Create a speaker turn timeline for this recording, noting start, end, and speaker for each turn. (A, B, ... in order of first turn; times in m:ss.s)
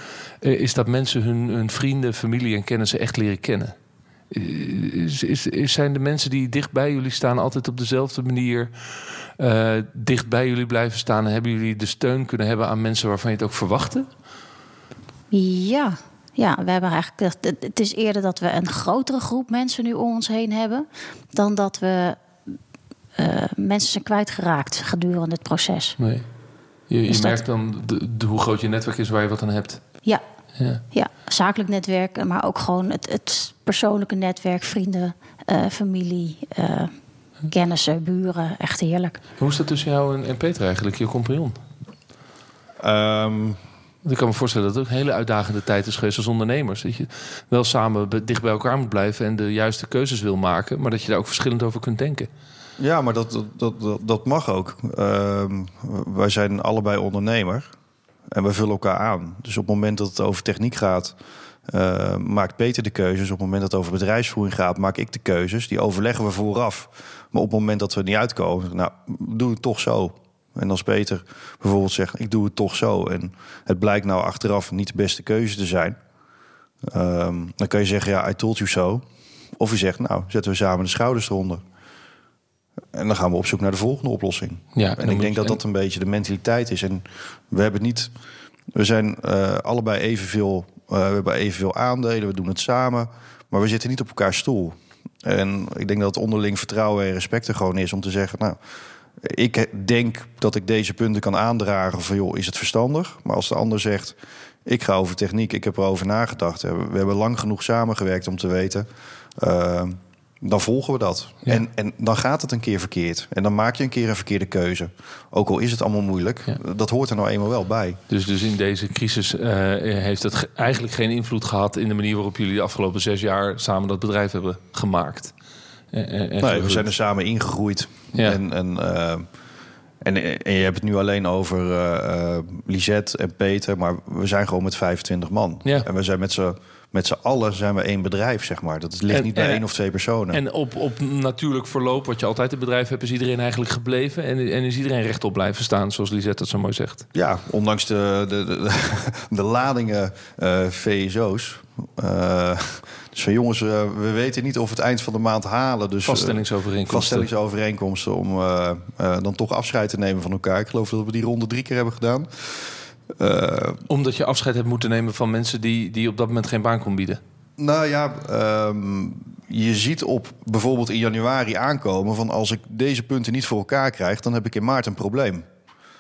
0:00.4-0:03.7 A
0:04.3-0:14.1 A
0:15.3-0:22.2 B
0:23.2-0:26.0 B
0:26.0-0:26.2 A
0:26.9-0:29.8 A
0:27.1-0:27.4 B
0:30.6-0:30.8 A
0:30.9-0:36.9 B
0:37.5-0:39.2 B
0:39.4-0:41.6 A
0:42.8-0:43.6 C
0:44.0-0:52.3 A
0:52.8-0:57.7 C
0:58.3-1:01.2 C
1:01.7-1:16.0 C
1:16.9-1:19.0 C
1:19.6-1:21.6 C
1:22.9-1:28.1 C
1:24.8-1:25.6 A
1:28.7-1:38.6 C
1:39.2-1:58.0 C
1:58.1-2:05.3 A
2:05.9-2:06.9 A
2:06.4-2:09.3 C
2:08.1-2:08.4 A
2:10.0-2:20.4 C
2:19.1-2:19.6 A
2:20.3-2:27.1 A
2:27.1-2:43.8 C
2:36.1-2:37.3 A
2:43.9-2:47.2 A
2:47.6-2:55.5 C